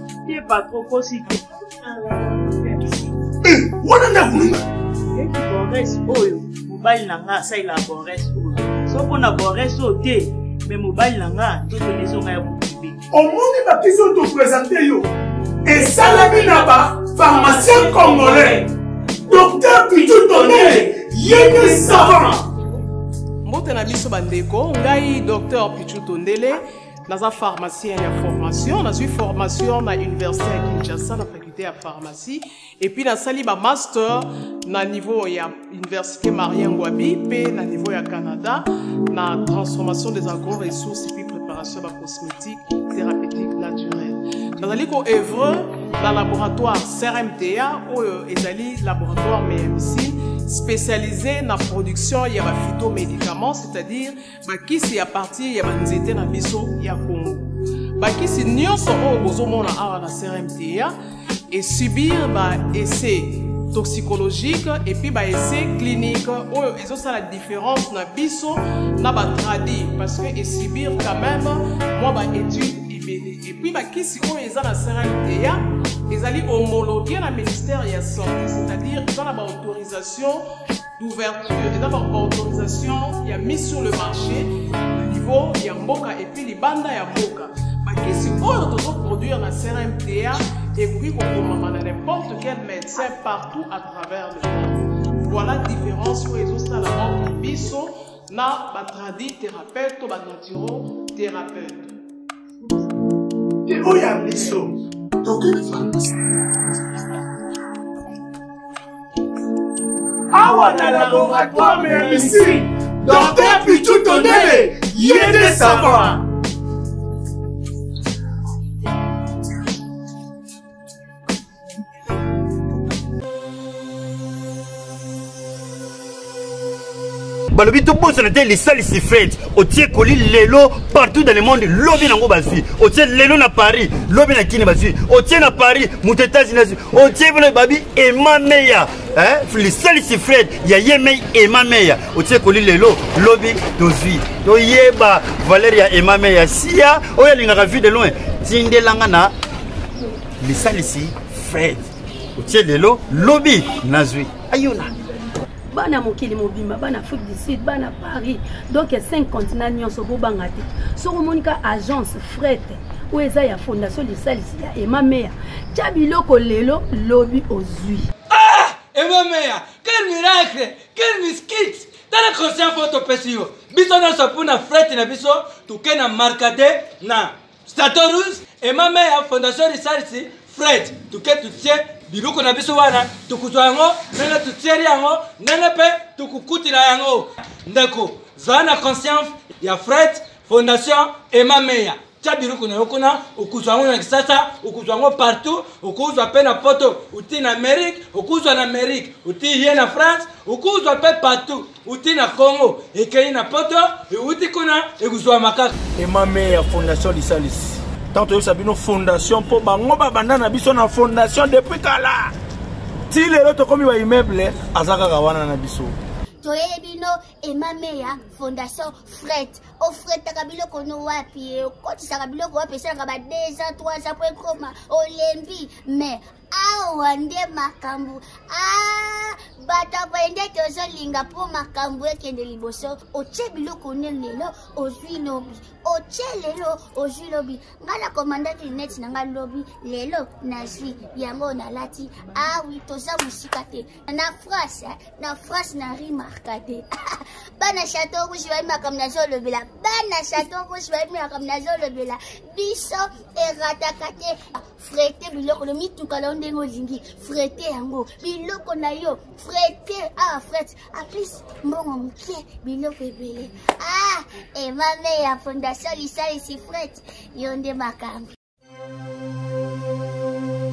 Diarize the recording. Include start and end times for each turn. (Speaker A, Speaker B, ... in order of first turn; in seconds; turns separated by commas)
Speaker A: 0.3-3.1, Speaker B: 3.4-4.7, Speaker A: 5.2-13.0, Speaker B: 13.1-15.1, Speaker B: 15.7-18.6, Speaker A: 15.7-18.7, Speaker B: 19.3-22.4, Speaker A: 19.3-22.5, Speaker C: 23.4-60.9, Speaker C: 61.5-80.4, Speaker C: 81.0-101.9, Speaker B: 103.7-106.2, Speaker B: 110.3-116.2, Speaker C: 110.7-111.2, Speaker A: 110.8-112.4, Speaker C: 113.1-113.4, Speaker A: 113.4-114.5, Speaker A: 115.2-115.9, Speaker C: 115.4-116.1, Speaker D: 127.5-149.3, Speaker D: 150.4-154.9, Speaker E: 155.7-168.1, Speaker F: 168.3-205.7, Speaker G: 206.0-212.3, Speaker G: 213.1-215.9, Speaker H: 216.4-246.9, Speaker H: 247.6-268.3